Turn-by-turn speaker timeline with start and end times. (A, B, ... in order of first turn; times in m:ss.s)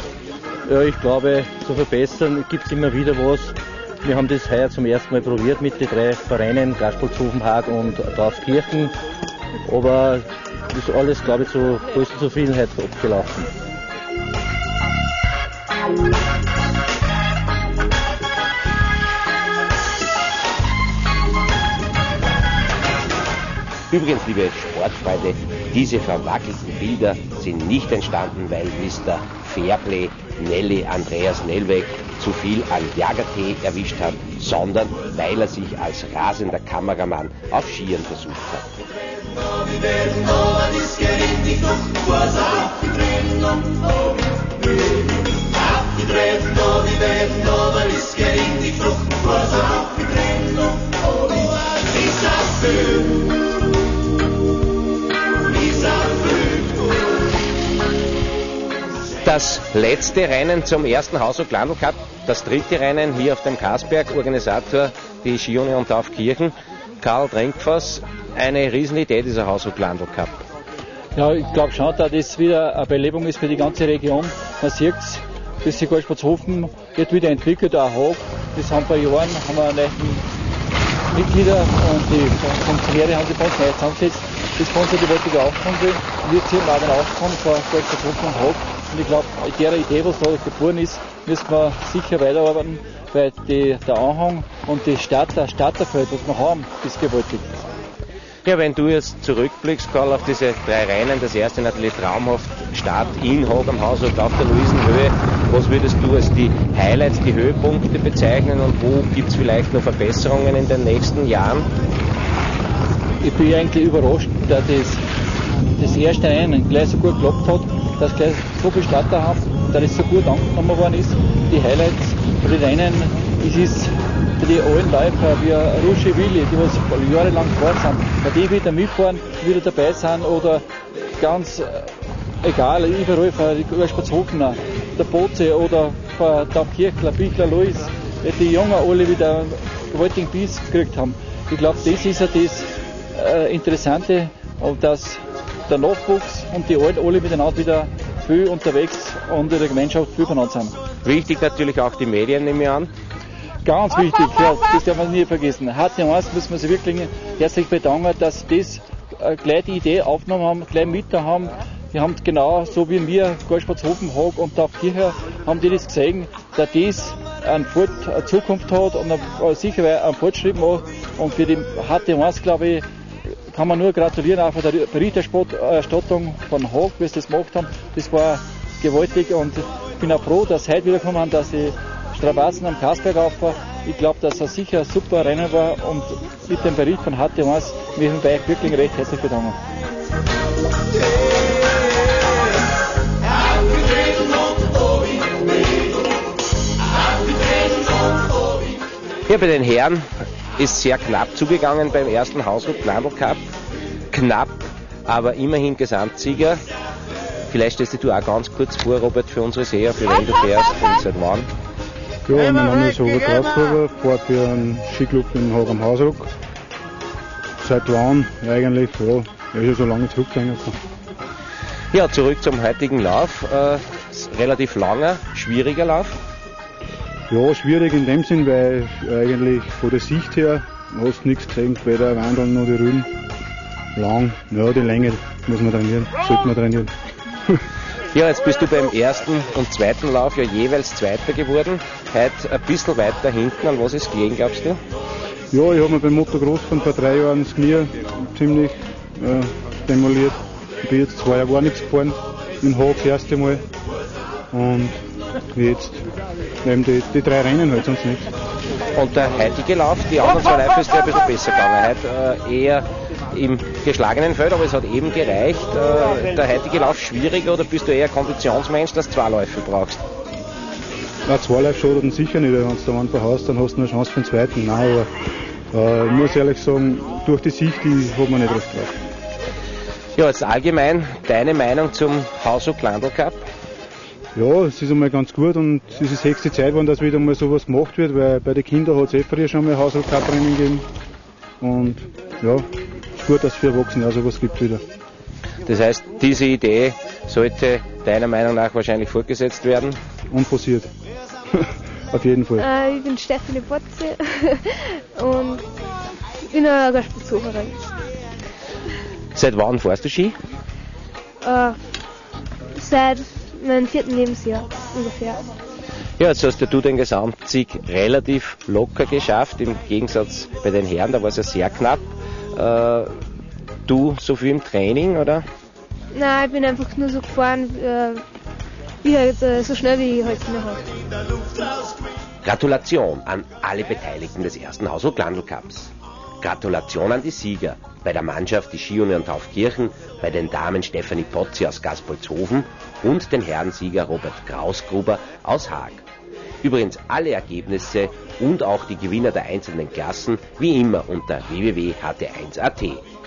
0:00.7-0:03.5 A
0:04.1-0:08.9 A
0:09.8-0:10.2 A
0:10.8-0:13.5 A
0:23.9-0:38.8 B
0:59.2-1:10.4 B
1:11.1-1:20.2 C
1:21.1-1:37.5 C
1:38.4-1:51.7 B
1:53.2-1:55.0 C
1:55.7-2:10.6 C
2:11.2-2:30.7 C
2:31.0-2:32.9 B
2:33.6-2:52.8 C
2:53.5-3:09.6 C
3:19.3-3:20.0 B
3:20.6-3:23.4 B
3:24.1-3:26.6 B
3:27.5-3:31.5 B
3:32.3-3:36.3 D
3:37.6-3:40.8 D
3:41.9-3:46.2 B
3:47.3-3:53.1 D
3:53.9-3:56.9 D
3:58.1-4:04.8 B
4:05.5-4:13.6 D
4:14.5-4:15.0 D
4:15.5-4:16.0 D
4:16.6-4:18.3 D
4:18.9-4:30.0 B
4:31.3-4:35.1 D
4:35.7-4:38.9 D
4:40.2-4:43.4 B
4:44.3-4:50.8 D
4:51.6-4:52.6 D
4:53.2-4:54.8 D
4:55.6-5:00.0 B
5:00.3-5:00.9 D
5:01.5-5:02.7 D
5:02.6-5:04.6 E
5:05.1-5:05.6 E
5:06.5-5:07.8 E
5:09.3-5:10.4 B
5:11.4-5:11.8 E
5:12.7-5:15.4 E
5:16.2-5:23.1 B
5:23.9-5:25.4 B
5:26.1-5:28.2 E
5:29.0-5:30.9 E
5:32.4-5:35.9 B
5:36.4-5:46.0 B
5:46.6-5:53.0 B